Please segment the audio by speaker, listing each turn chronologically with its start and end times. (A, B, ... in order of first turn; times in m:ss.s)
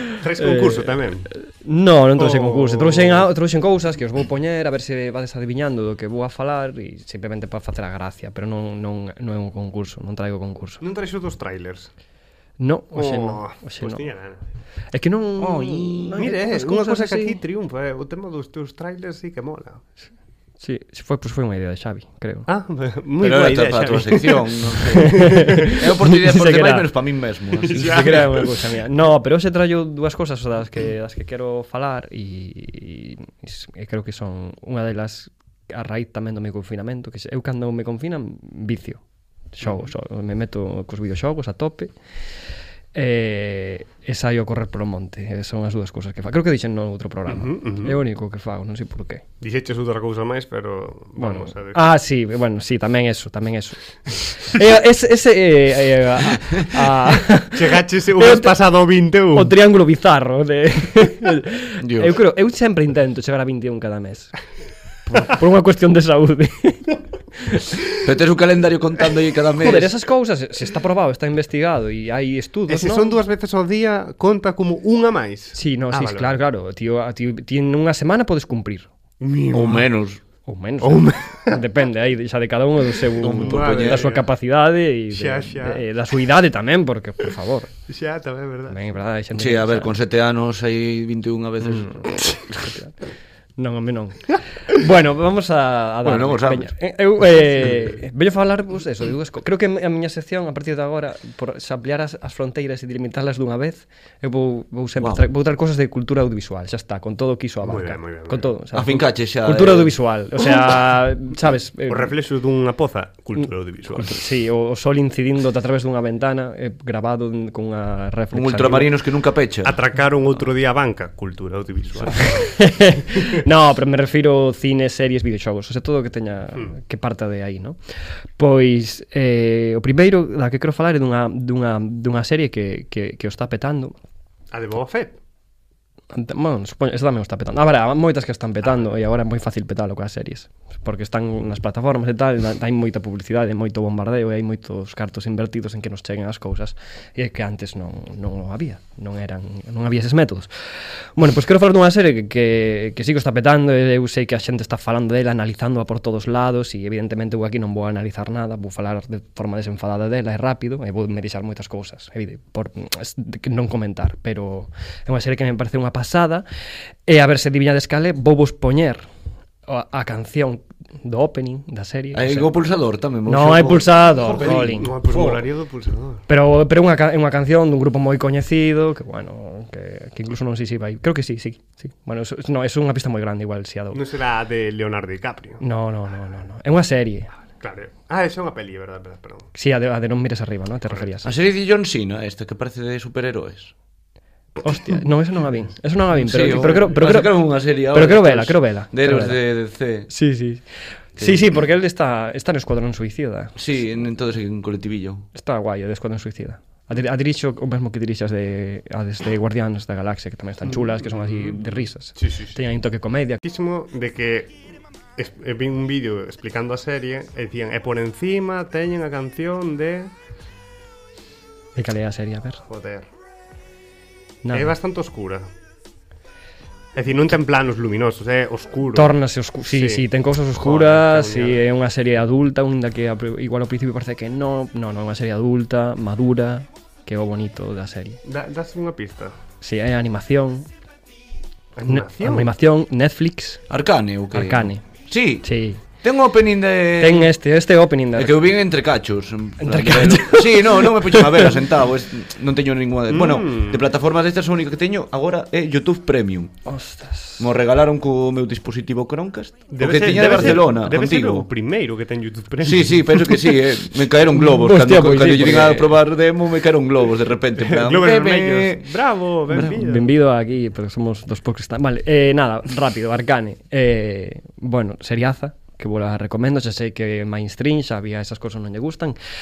0:00.2-0:01.3 A
0:00.4-0:10.8 B
0:02.2-0:03.3 A
0:10.8-0:11.9 A
0:12.6-0:14.0 B
0:12.9-0:14.4 A
0:14.9-0:17.4 B
0:15.4-0:16.2 C
0:16.1-0:19.8 A
0:20.6-0:22.5 B
0:22.5-0:24.8 A
0:23.2-0:28.3 C
0:25.0-0:26.9 B
0:27.6-0:28.5 A
0:27.7-0:39.0 B
0:39.5-0:41.9 B
0:42.9-0:49.2 B
0:47.3-0:48.0 A
0:49.4-0:51.8 A
0:51.2-0:58.5 B
0:57.5-0:59.5 A
0:59.3-1:04.3 B
1:01.8-1:02.2 C
1:05.1-1:07.6 B
1:08.0-1:09.9 C
1:09.6-1:13.2 B
1:12.7-1:16.4 A
1:15.5-1:18.9 B
1:19.2-1:19.9 A
1:19.5-1:20.2 C
1:20.5-1:27.7 B
1:20.8-1:21.6 A
1:23.1-1:24.3 A
1:23.2-1:24.1 C
1:25.1-1:25.8 A
1:27.9-1:28.8 A
1:28.7-1:29.9 B
1:29.3-1:32.2 C
1:31.7-1:32.9 B
1:33.6-1:52.1 B
1:36.0-1:36.7 C
1:45.0-1:45.2 C
1:47.6-1:48.5 A
1:48.7-1:49.9 C
1:51.9-1:54.2 A
1:53.9-1:58.9 B
1:58.3-1:59.8 C
1:59.6-2:02.5 A
2:02.2-2:07.8 B
2:08.4-2:13.9 B
2:14.5-2:15.2 A
2:16.1-2:30.5 B
2:31.2-2:46.4 B
2:47.0-2:49.0 B
2:49.7-2:52.5 B
2:52.1-2:55.4 C
2:53.2-2:54.9 B
2:54.2-2:56.2 A
2:56.3-3:04.0 B
3:03.9-3:05.6 A
3:05.6-3:07.3 B
3:07.6-3:09.5 A
3:09.5-3:11.3 B
3:11.2-3:13.7 C
3:14.6-3:19.4 B
3:16.1-3:20.1 C
3:20.1-3:20.6 B
3:21.2-3:23.6 B
3:21.2-3:21.4 C
3:23.6-3:25.3 C
3:25.3-3:33.4 B
3:31.0-3:31.6 A
3:32.2-3:32.6 A
3:33.4-3:34.6 A
3:35.2-3:40.1 A
3:41.8-3:42.6 B
3:42.7-3:43.1 A
3:44.4-3:44.7 B
3:44.5-3:45.5 A
3:46.9-3:50.1 A
3:48.9-3:58.2 B
3:50.6-3:51.6 A
3:58.2-3:59.4 A
3:59.6-4:00.7 B
4:01.8-4:02.5 A
4:01.9-4:03.6 B
4:03.7-4:05.5 C
4:04.3-4:04.8 B
4:05.4-4:05.8 B
4:06.0-4:07.4 C
4:07.0-4:08.6 B
4:08.2-4:16.5 C
4:09.6-4:11.5 B
4:13.1-4:13.8 A
4:16.6-4:17.4 B
4:17.4-4:21.5 C
4:19.7-4:23.3 A
4:22.6-4:28.9 C
4:24.3-4:26.0 B
4:27.6-4:30.1 A
4:29.5-4:39.2 B